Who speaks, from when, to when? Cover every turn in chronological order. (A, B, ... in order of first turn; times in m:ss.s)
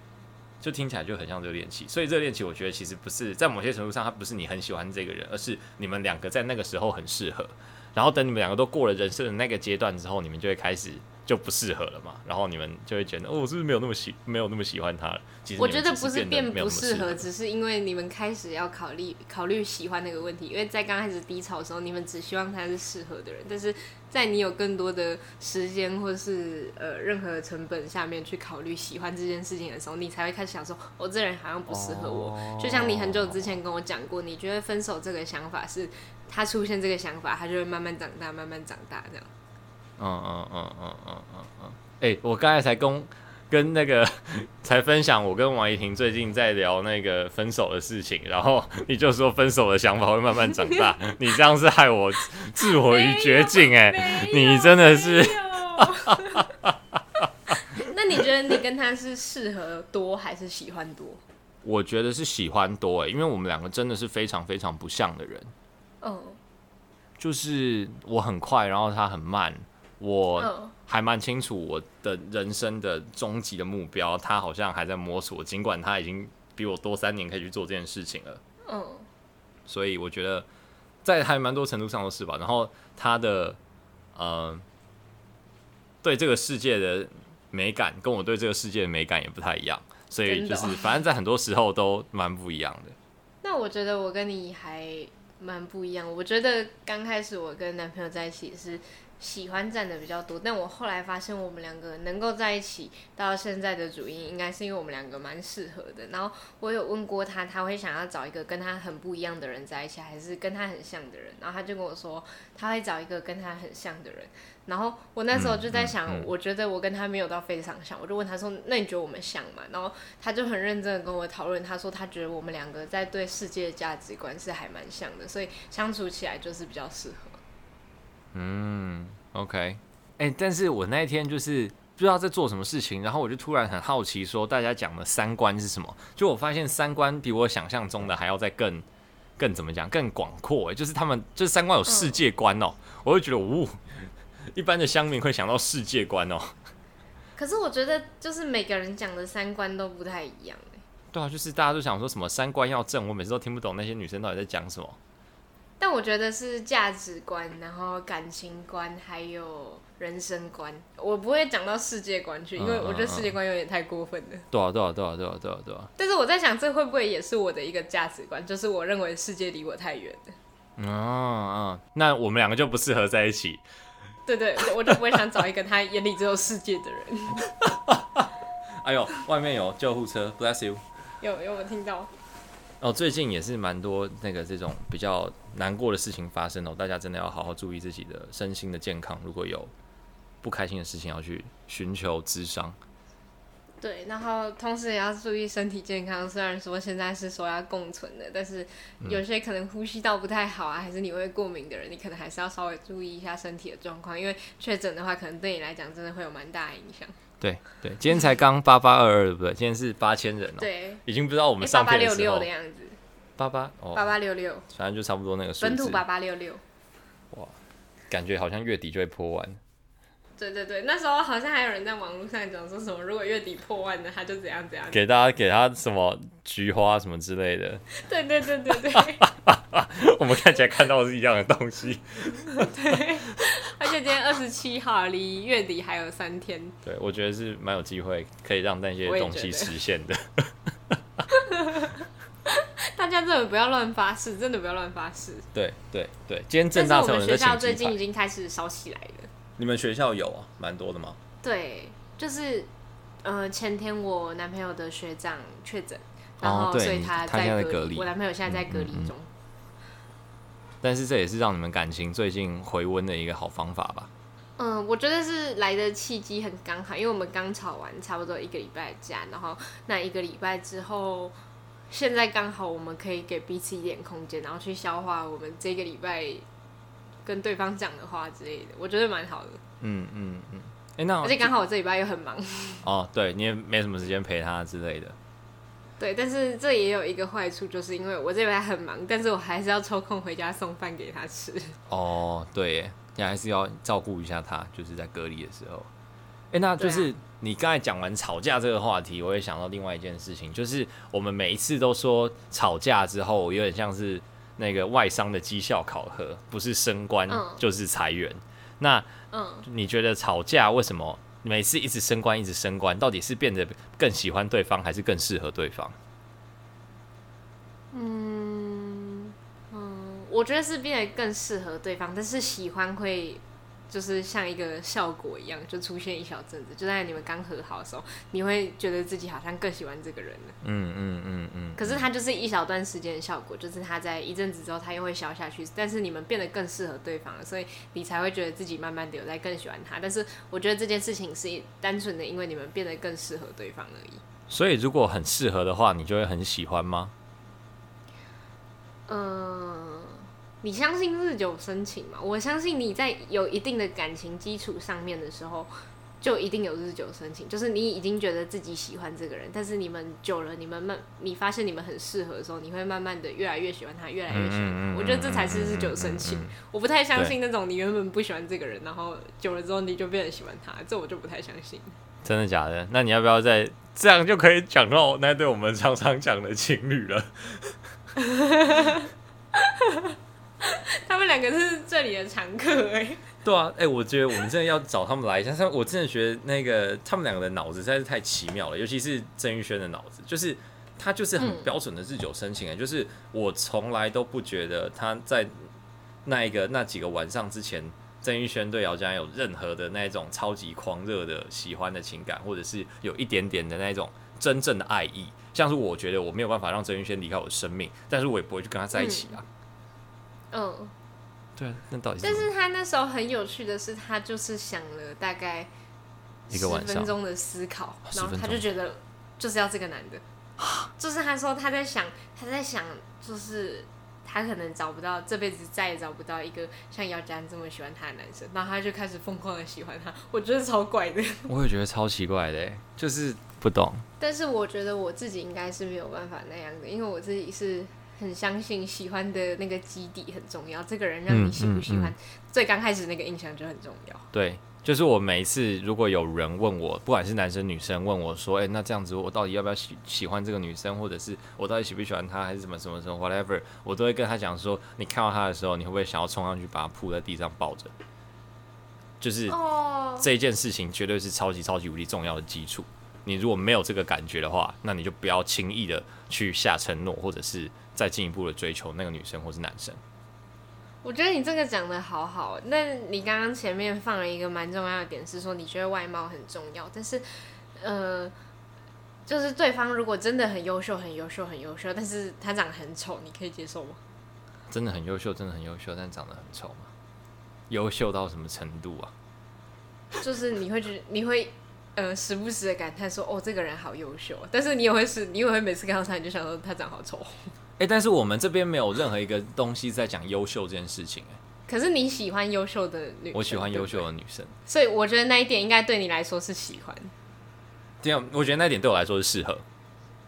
0:00.6-0:17.2 A
0:15.6-0:39.3 B
0:31.7-0:33.6 A
0:40.0-0:57.5 A
0:52.7-0:56.5 B
0:57.7-1:01.2 B
1:01.6-1:05.5 A
1:06.0-1:06.4 B
1:07.2-1:18.4 A
1:10.4-1:10.7 B
1:18.7-1:19.1 B
1:19.7-1:20.5 A
1:21.0-1:23.6 A
1:24.2-1:24.6 A
1:26.0-1:33.0 A
1:30.3-1:31.0 B
1:33.4-2:07.4 B
1:55.3-1:56.3 A
2:08.3-2:18.9 A
2:19.4-2:26.6 A
2:21.9-2:22.2 B
2:27.4-2:30.8 B
2:31.1-2:35.0 A
2:35.8-2:44.5 B
2:42.6-2:43.4 A
2:44.5-2:45.9 A
2:46.0-2:50.4 B
2:50.8-2:53.6 A
2:54.3-2:57.5 B
2:57.4-2:58.3 A
2:58.8-3:00.8 A
3:01.2-3:02.1 B
3:02.8-3:09.7 A
3:10.4-3:12.8 A
3:13.8-3:27.2 B
3:27.4-3:32.5 A
3:30.6-3:31.0 B
3:31.6-3:33.0 B
3:33.4-3:34.1 A
3:34.0-3:34.7 B
3:34.7-3:36.0 A
3:35.6-3:36.6 B
3:38.1-3:39.6 A
3:40.4-3:45.0 B
3:44.9-3:47.8 A
3:47.9-3:49.2 B
3:48.9-3:53.0 A
3:52.6-3:56.8 B
3:56.8-4:01.2 A
3:59.1-3:59.8 B
4:01.3-4:05.5 B
4:05.5-4:08.0 A
4:06.7-4:09.3 B
4:09.6-4:11.2 A
4:11.4-4:12.7 B
4:13.2-4:19.3 B
4:16.4-4:19.1 A
4:20.8-4:24.1 A
4:24.6-4:31.4 B
4:31.9-4:36.4 B
4:37.2-4:39.6 B
4:39.8-4:41.5 A
4:41.2-4:42.9 B
4:42.8-4:45.2 A
4:46.0-4:51.8 B
4:51.9-4:55.9 A
4:56.5-5:09.1 A
4:56.8-4:57.1 B
5:07.3-5:07.6 B
5:09.3-5:09.7 B
5:09.6-5:16.0 A
5:17.9-5:30.6 B
5:30.6-5:32.0 A
5:31.8-5:44.2 B
5:44.5-5:47.1 A
5:49.1-5:55.7 B
5:56.2-6:12.0 B
6:04.3-6:06.6 A
6:12.2-6:17.8 A
6:18.2-6:23.2 B
6:23.4-6:35.7 A
6:31.4-6:31.7 B
6:36.2-6:49.4 A
6:49.0-6:49.3 B
6:50.5-6:50.9 B
6:51.6-6:52.5 A
6:52.2-6:55.7 B
6:56.5-7:00.2 B
6:56.5-6:57.1 A
6:58.1-6:58.6 A
7:00.6-7:00.9 A
7:01.0-7:11.5 B
7:11.5-7:14.0 A
7:14.2-7:24.3 B
7:21.3-7:22.1 A
7:24.3-7:37.9 A
7:39.2-7:39.6 A
7:39.5-7:40.3 B
7:40.2-7:50.0 A
7:51.0-7:57.2 B
7:57.8-7:58.3 B
7:59.3-8:04.0 B
8:04.7-8:06.9 A
8:07.7-8:09.1 A
8:10.2-8:17.5 B
8:17.8-8:21.4 A
8:21.7-8:24.1 B
8:23.3-8:24.5 A
8:24.7-8:27.1 B
8:28.0-8:29.6 A